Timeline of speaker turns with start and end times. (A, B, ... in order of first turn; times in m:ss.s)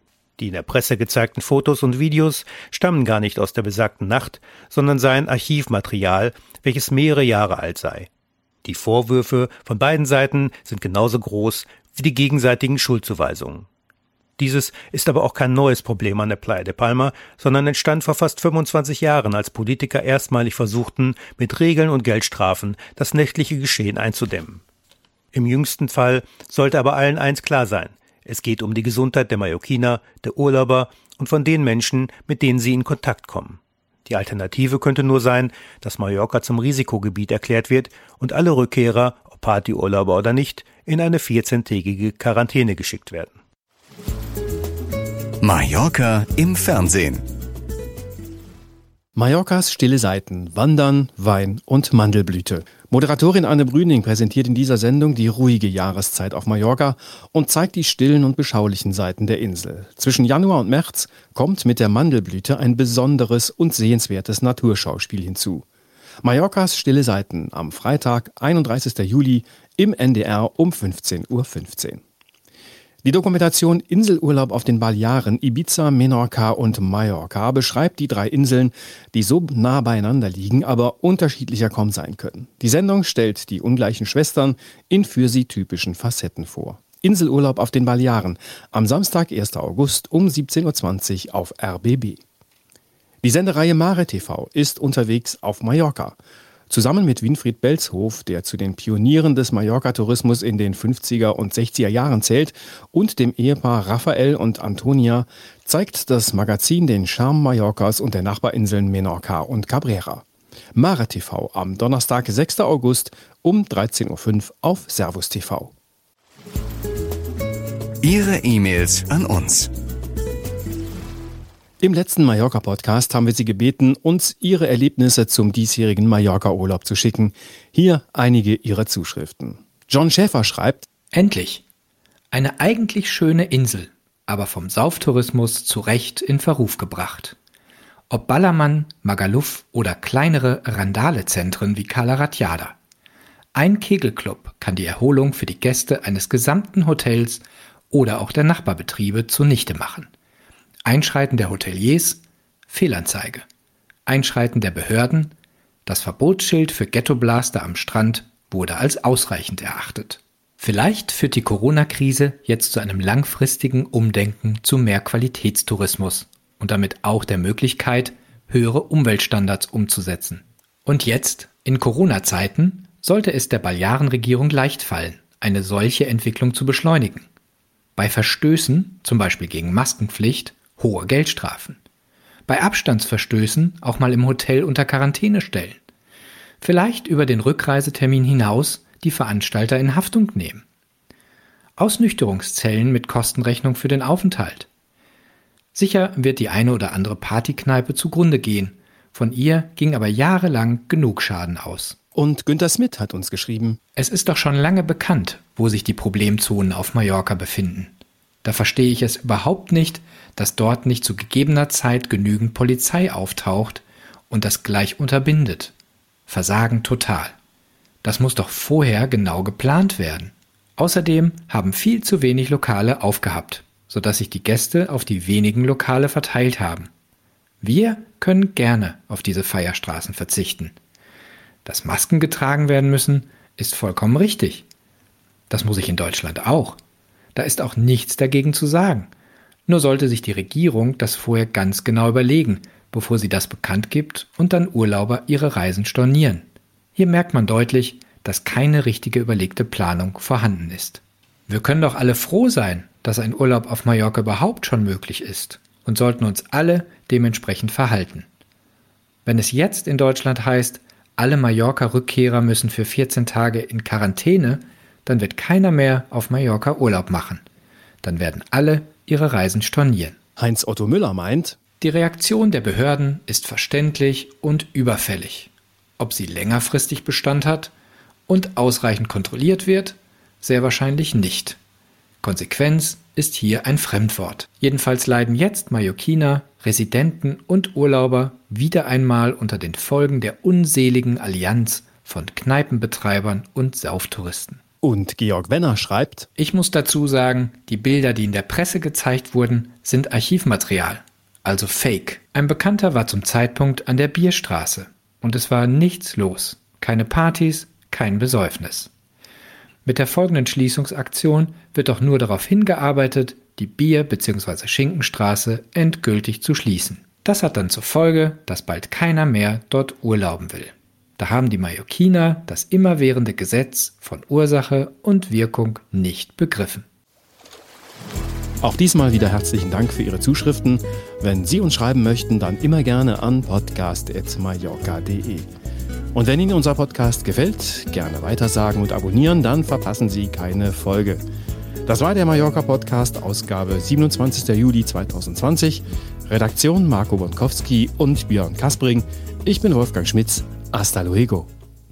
0:00.4-0:08.1 A
0:08.6-0:13.7 A
0:14.4-0:24.6 A
0:25.3-0:43.3 A
0:45.4-0:47.2 B
0:49.1-1:05.6 C
1:06.2-1:12.0 C
1:13.0-1:32.2 C
1:33.2-1:36.2 C
1:36.7-1:55.7 C
1:58.0-1:59.7 B
2:01.8-2:10.8 C
2:11.1-2:11.6 D
2:12.3-2:17.3 D
2:18.1-2:22.7 D
2:23.5-2:30.1 D
2:30.8-2:33.4 D
2:34.0-2:35.3 D
2:35.8-2:57.3 D
2:58.0-3:01.8 D
3:02.5-3:05.8 D
3:06.6-3:10.6 D
3:11.8-3:14.7 D
3:15.7-3:22.0 D
3:22.1-3:23.8 C
3:24.0-3:35.7 D
3:36.3-3:37.3 D
3:38.0-3:46.9 D
3:47.6-3:50.8 D
3:51.6-3:54.6 D
3:55.5-3:56.8 D
3:57.3-3:59.1 D
3:59.7-4:18.2 D
4:19.2-4:27.4 D
4:28.0-4:30.1 D
4:30.4-4:31.6 C
4:31.8-4:37.7 D
4:38.3-4:41.6 D
4:42.2-4:54.6 D
4:54.8-4:56.3 C
4:56.4-5:08.9 D
5:09.8-5:26.8 D
5:28.6-5:35.5 C
5:36.1-5:41.2 C
5:41.9-5:51.5 C